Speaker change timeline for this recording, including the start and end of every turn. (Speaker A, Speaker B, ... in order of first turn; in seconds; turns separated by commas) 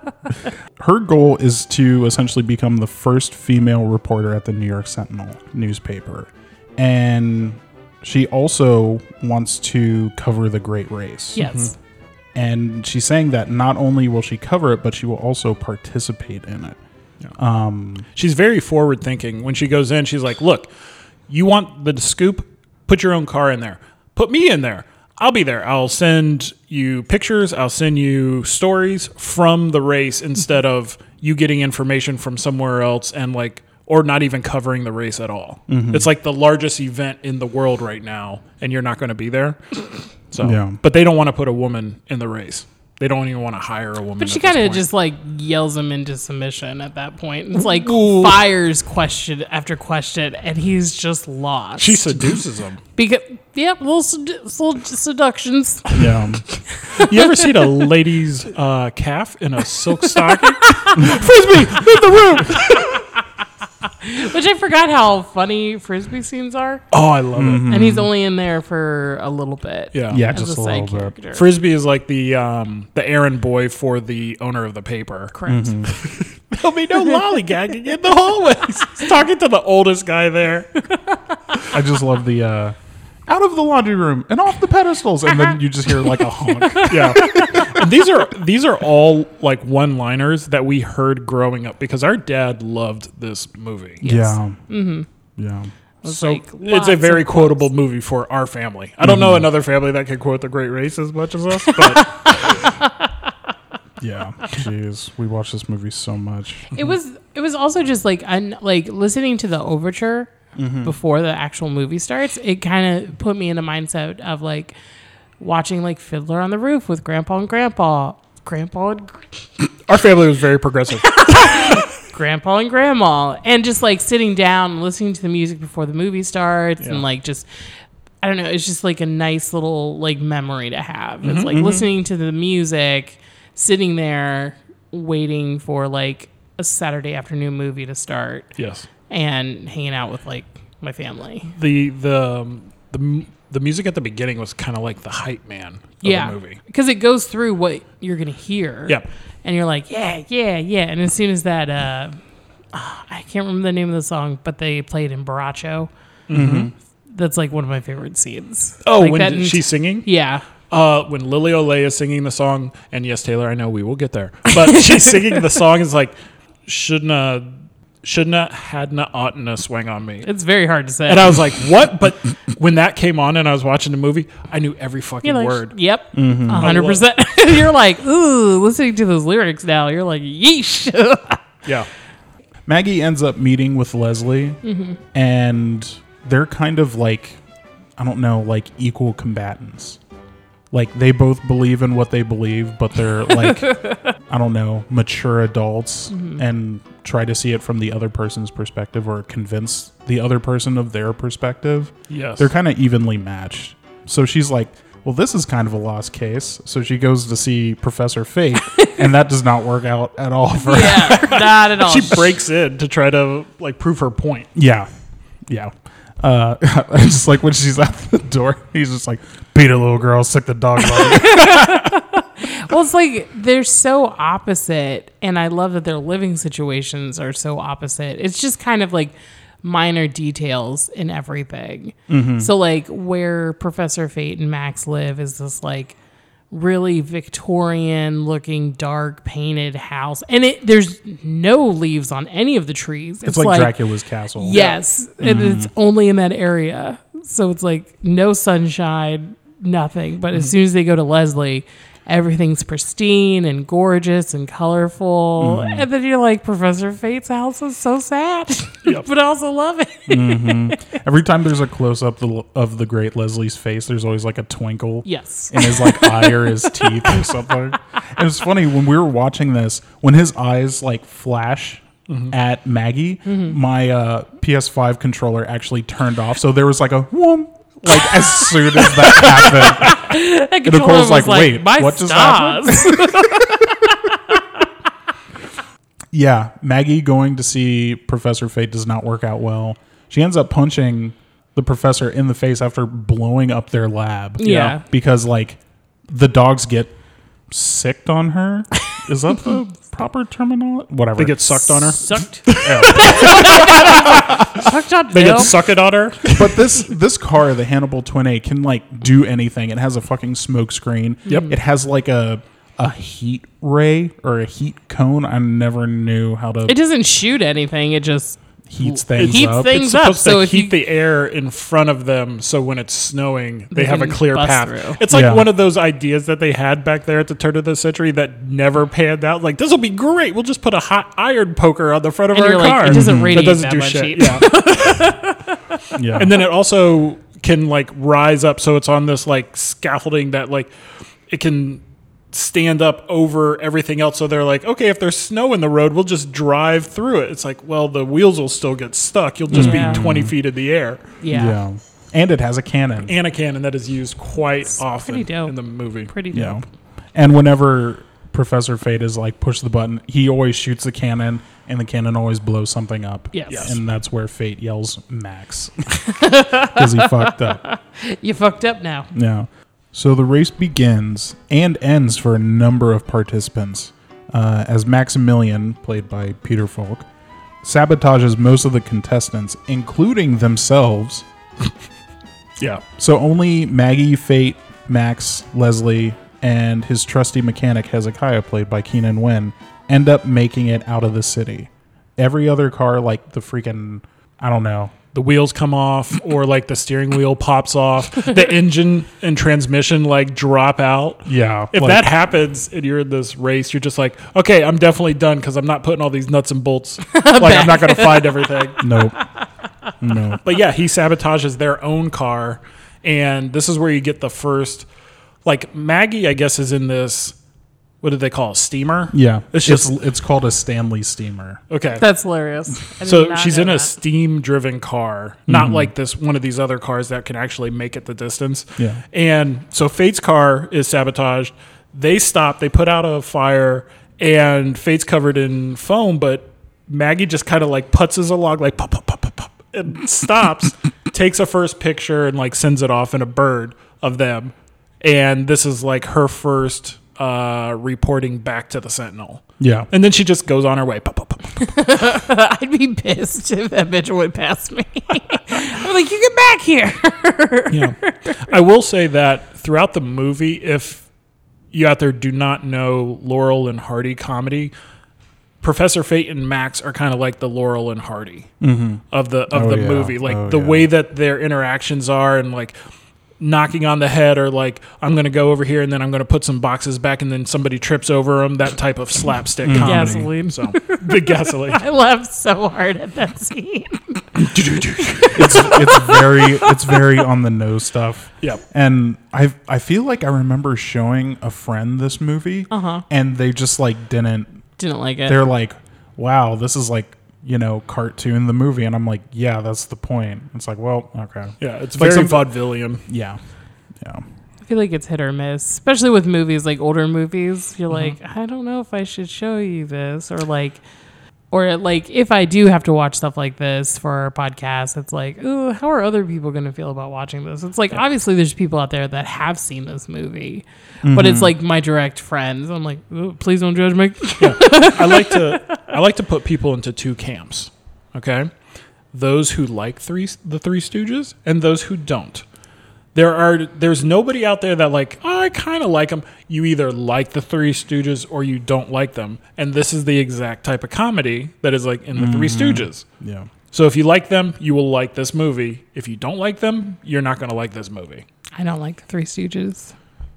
Speaker A: 0.8-11.4, Speaker B: 11.3-11.7, Speaker C: 11.4-11.7, Speaker A: 12.3-16.8, Speaker A: 17.4-18.1, Speaker C: 18.1-20.7, Speaker C: 21.3-44.9, Speaker A: 35.7-36.1, Speaker A: 40.4-40.8, Speaker B: 44.2-52.2, Speaker C: 47.6-48.5, Speaker C: 51.8-52.8, Speaker B: 53.0-55.9, Speaker A: 55.9-56.4, Speaker B: 56.6-57.4, Speaker C: 56.9-63.0, Speaker A: 61.0-61.3, Speaker B: 64.0-66.8, Speaker C: 66.9-67.7, Speaker A: 67.3-68.1, Speaker B: 67.7-71.5, Speaker C: 69.9-70.2, Speaker A: 70.1-71.1, Speaker C: 71.3-75.3, Speaker B: 75.3-75.8, Speaker A: 75.5-76.0, Speaker C: 75.9-80.9, Speaker A: 81.7-82.8, Speaker A: 83.3-87.9, Speaker B: 86.5-87.8, Speaker C: 86.9-94.0, Speaker B: 94.0-95.1, Speaker A: 94.0-94.6, Speaker A: 95.4-95.7, Speaker B: 96.0-97.7, Speaker C: 96.0-102.5, Speaker A: 99.0-99.5, Speaker B: 101.7-102.9, Speaker A: 104.0-106.7, Speaker B: 106.7-114.7, Speaker A: 110.5-110.9, Speaker B: 115.4-119.4, Speaker C: 119.9-121.8, Speaker B: 121.1-127.5, Speaker B: 128.2-138.5, Speaker C: 131.2-131.6, Speaker A: 131.5-131.9, Speaker C: 138.6-138.8, Speaker B: 139.1-141.5, Speaker C: 141.5-146.6, Speaker B: 146.0-152.2, Speaker B: 152.7-155.9, Speaker C: 156.3-156.7, Speaker A: 156.3-156.7, Speaker B: 157.1-160.4, Speaker C: 158.8-160.1, Speaker C: 160.7-166.1, Speaker B: 164.5-165.4, Speaker C: 166.7-167.5, Speaker C: 168.0-170.3, Speaker B: 170.2-171.4, Speaker C: 171.1-175.7, Speaker B: 175.2-181.4, Speaker A: 176.1-176.7, Speaker C: 176.6-177.0, Speaker A: 182.7-184.6, Speaker B: 184.6-185.0, Speaker A: 185.1-187.4, Speaker A: 188.0-190.0, Speaker A: 190.7-211.3, Speaker B: 193.6-193.9, Speaker B: 196.1-196.4, Speaker C: 202.1-202.5, Speaker B: 208.7-209.0, Speaker B: 210.6-212.3, Speaker C: 211.2-214.5, Speaker A: 214.5-214.9, Speaker A: 215.5-221.9, Speaker B: 220.9-235.9, Speaker A: 232.1-232.5, Speaker B: 236.5-243.8, Speaker A: 243.2-244.6, Speaker B: 244.3-260.8, Speaker C: 244.5-244.8, Speaker A: 245.2-245.7, Speaker A: 255.4-255.9, Speaker A: 260.1-283.6, Speaker B: 265.0-267.2, Speaker C: 272.1-272.3, Speaker B: 273.2-273.6, Speaker B: 277.9-284.3, Speaker A: 286.1-296.9, Speaker B: 294.4-294.8, Speaker C: 294.4-294.7, Speaker A: 297.5-301.9, Speaker C: 301.1-306.7, Speaker B: 301.7-305.5, Speaker A: 302.6-304.4, Speaker A: 306.3-316.8, Speaker B: 311.2-311.5, Speaker C: 311.3-311.5, Speaker B: 316.6-320.8, Speaker A: 318.7-319.7, Speaker C: 319.1-335.4, Speaker B: 323.7-325.0, Speaker A: 325.1-325.5, Speaker B: 332.3-335.5, Speaker A: 332.9-333.5, Speaker A: 335.9-336.4, Speaker C: 336.1-340.7, Speaker C: 341.3-351.1, Speaker A: 349.5-350.3, Speaker B: 349.5-350.0, Speaker B: 351.2-351.6, Speaker A: 351.3-353.1, Speaker C: 353.1-356.1, Speaker B: 354.9-355.5, Speaker B: 356.1-356.6, Speaker A: 356.3-366.0, Speaker B: 363.3-363.8, Speaker C: 363.5-363.8, Speaker B: 366.0-369.1, Speaker A: 366.6-367.6, Speaker A: 369.1-377.1, Speaker A: 377.6-381.2, Speaker A: 383.0-394.9, Speaker C: 395.1-408.8, Speaker A: 401.2-402.1, Speaker B: 407.1-409.2, Speaker A: 408.8-409.2, Speaker A: 410.0-410.4, Speaker C: 410.4-414.9, Speaker C: 415.4-417.3, Speaker C: 418.0-419.9, Speaker A: 419.1-421.6, Speaker C: 421.7-422.0, Speaker B: 422.0-423.9, Speaker C: 423.0-451.6, Speaker A: 425.5-425.9, Speaker A: 428.8-429.0, Speaker A: 449.6-449.9, Speaker B: 451.6-458.5, Speaker C: 457.7-461.0, Speaker C: 461.7-464.7, Speaker C: 465.6-468.5, Speaker A: 468.6-470.9, Speaker C: 469.1-472.7, Speaker C: 473.4-481.8, Speaker A: 479.6-480.3, Speaker B: 479.8-484.2, Speaker C: 484.4-485.7, Speaker A: 485.3-494.6, Speaker B: 485.4-486.6, Speaker B: 492.7-493.0, Speaker B: 494.8-495.4, Speaker A: 495.2-502.5, Speaker C: 501.6-503.0, Speaker A: 503.1-503.4, Speaker B: 504.6-510.8, Speaker B: 511.5-525.9, Speaker A: 521.0-521.5, Speaker C: 524.4-528.5, Speaker C: 529.1-532.4, Speaker C: 533.1-543.0, Speaker A: 542.1-543.5, Speaker C: 543.7-548.2, Speaker B: 548.5-549.9